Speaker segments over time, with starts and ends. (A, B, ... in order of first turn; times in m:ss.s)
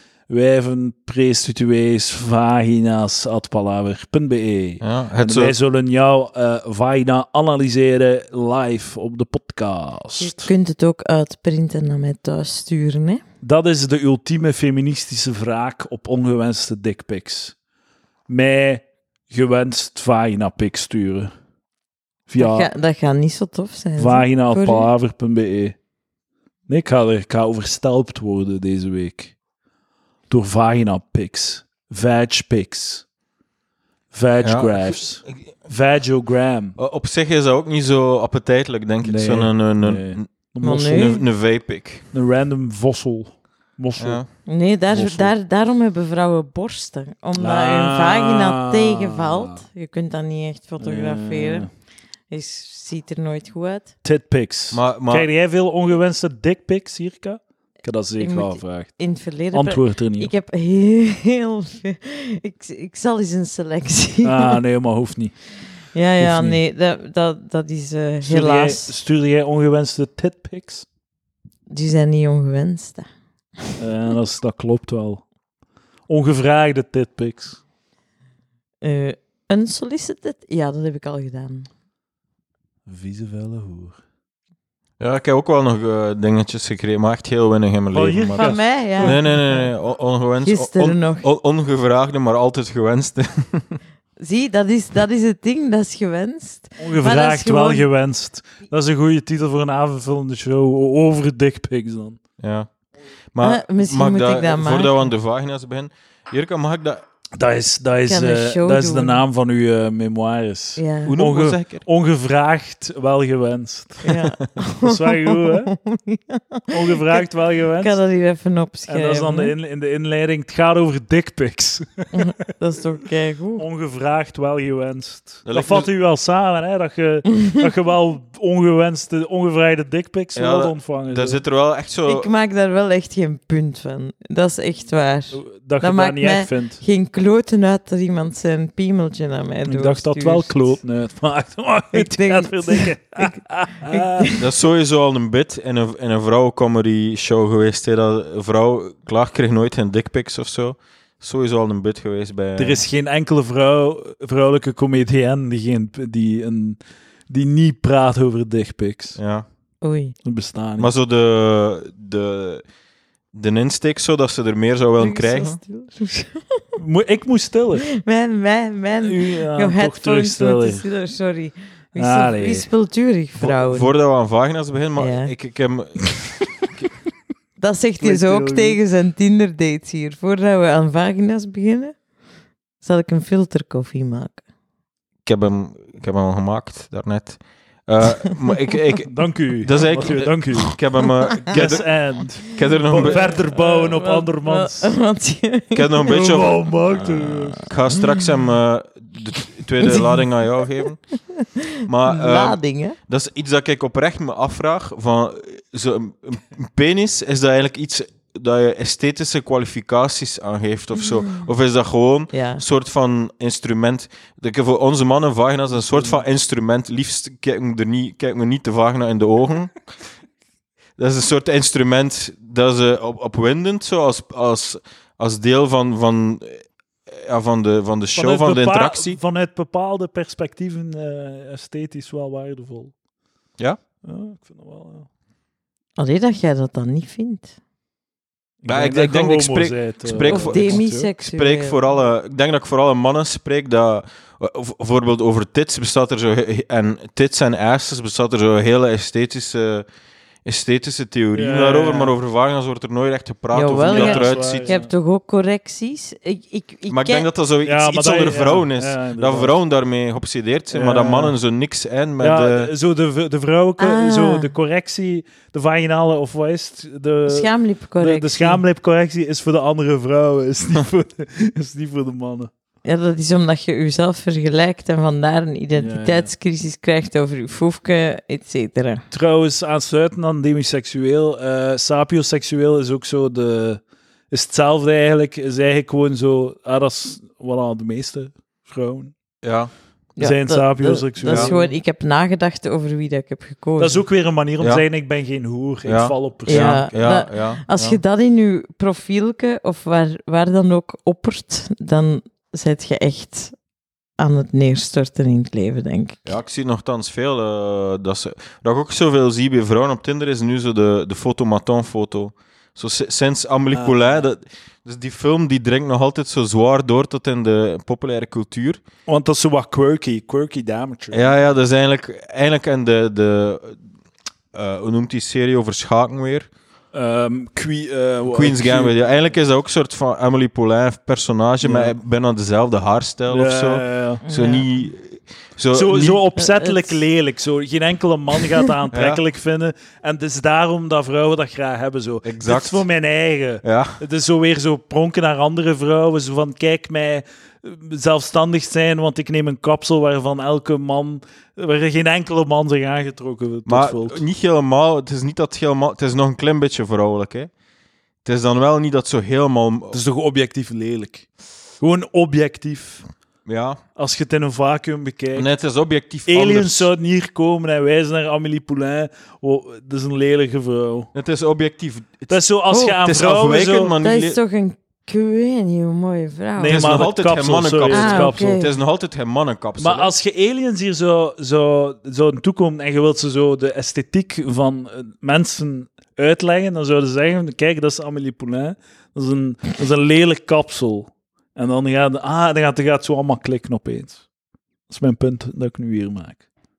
0:00.3-0:10.5 A
0:04.8-0:05.5 B
0:10.2-0:13.2 C
0:13.4-0:17.5 A
0:18.3-0:21.3 A
0:22.3-0:22.7 A
0:22.4-0:24.9 C
0:24.0-0:25.8 A
0:26.7-0:29.3 A
0:30.3-0:33.0 A
0:34.1-0:36.8 A
0:34.4-0:35.3 B
0:36.8-0:42.0 B
0:39.0-0:41.2 A
0:40.6-0:41.2 C
0:42.1-0:44.2 A
0:44.0-0:44.2 B
0:44.4-0:51.7 C
0:44.9-0:45.3 A
0:47.4-0:49.6 A
0:50.8-0:51.7 A
0:52.3-0:53.9 C
0:54.0-0:58.9 A
0:54.7-0:55.3 B
0:58.2-1:04.6 C
0:59.5-1:00.3 A
1:04.2-1:05.4 A
1:05.9-1:08.9 C
1:06.2-1:06.6 A
1:08.2-1:10.8 A
1:11.7-1:13.0 C
1:13.8-1:15.2 A
1:16.1-1:17.6 A
1:18.8-1:21.7 C
1:22.9-1:24.0 A
1:25.0-1:33.8 B
1:27.9-1:29.6 A
1:28.4-1:29.4 C
1:30.4-1:31.2 C
1:34.2-1:37.8 C
1:36.8-1:42.2 A
1:42.4-1:42.7 B
1:43.3-1:47.0 B
1:43.4-1:45.1 C
1:47.4-1:54.1 A
1:48.1-1:49.2 C
1:50.8-1:51.2 C
1:51.0-1:51.8 B
1:54.0-1:57.2 C
1:54.8-1:55.7 A
1:56.7-1:58.0 A
1:57.8-1:59.5 C
1:58.9-2:02.2 A
2:02.1-2:03.6 C
2:03.6-2:11.4 A
2:05.4-2:05.9 B
2:10.3-2:12.3 B
2:12.1-2:20.7 C
2:15.3-2:16.8 A
2:19.6-2:24.3 A
2:21.9-2:24.4 C
2:24.4-2:32.8 B
2:32.6-2:39.2 A
2:39.2-2:39.4 B
2:39.8-2:40.2 C
2:40.2-2:40.9 A
2:40.8-2:42.6 B
2:43.3-2:45.6 B
2:45.0-2:46.6 C
2:46.8-2:47.9 A
2:47.9-2:53.9 C
2:49.0-2:50.9 A
2:52.0-2:52.7 A
2:53.4-2:56.3 B
2:55.0-2:55.3 C
2:57.6-3:02.0 C
2:58.0-2:58.8 A
3:02.8-3:04.4 C
3:05.2-3:13.3 B
3:09.1-3:10.7 A
3:11.5-3:14.9 A
3:12.6-3:16.6 C
3:15.7-3:21.0 B
3:16.1-3:17.6 A
3:17.6-3:18.3 C
3:19.8-3:23.0 C
3:21.8-3:39.8 B
3:31.1-3:31.4 C
3:32.3-3:32.6 C
3:35.9-3:36.2 A
3:41.0-3:49.2 B
3:48.1-3:52.9 A
3:54.0-3:55.1 A
3:56.0-3:57.6 C
3:58.6-4:01.1 A
3:58.7-4:09.8 B
4:00.2-4:01.8 C
4:10.4-4:14.7 B
4:11.3-4:12.1 A
4:13.5-4:17.3 C
4:13.8-4:14.9 A
4:16.9-4:22.7 B
4:17.6-4:19.6 A
4:20.7-4:21.4 A
4:22.2-4:32.5 A
4:23.8-4:24.5 C
4:27.3-4:28.6 C
4:32.8-4:39.0 C
4:35.7-4:36.3 A
4:39.1-4:49.1 A
4:49.4-4:49.7 B
4:50.2-4:54.0 C
4:50.2-4:51.8 A
4:53.8-4:56.8 A
4:55.8-4:58.0 B
4:56.5-5:03.5 C
5:04.2-5:06.3 C
5:06.2-5:18.8 B
5:13.7-5:14.2 A
5:19.1-5:21.3 A
5:21.1-5:23.8 B
5:24.5-5:26.5 B
5:26.9-5:29.0 A
5:28.3-5:36.2 B
5:31.6-5:31.9 A
5:33.3-5:34.2 A
5:34.2-5:34.7 C
5:35.7-5:54.2 A
5:36.4-5:37.0 C
5:38.9-5:39.2 B
5:42.2-5:42.8 B
5:43.6-5:44.0 B
5:53.6-5:57.5 B
5:58.2-6:00.0 B
5:59.9-6:01.3 A
6:01.8-6:03.0 A
6:03.4-6:03.8 B
6:04.0-6:05.5 A
6:05.3-6:06.9 B
6:06.2-6:11.1 A
6:11.1-6:14.4 B
6:12.3-6:13.9 A
6:14.0-6:16.9 C
6:16.6-6:18.5 A
6:16.6-6:20.1 B
6:17.9-6:18.7 C
6:19.8-6:34.2 A
6:34.9-6:36.4 A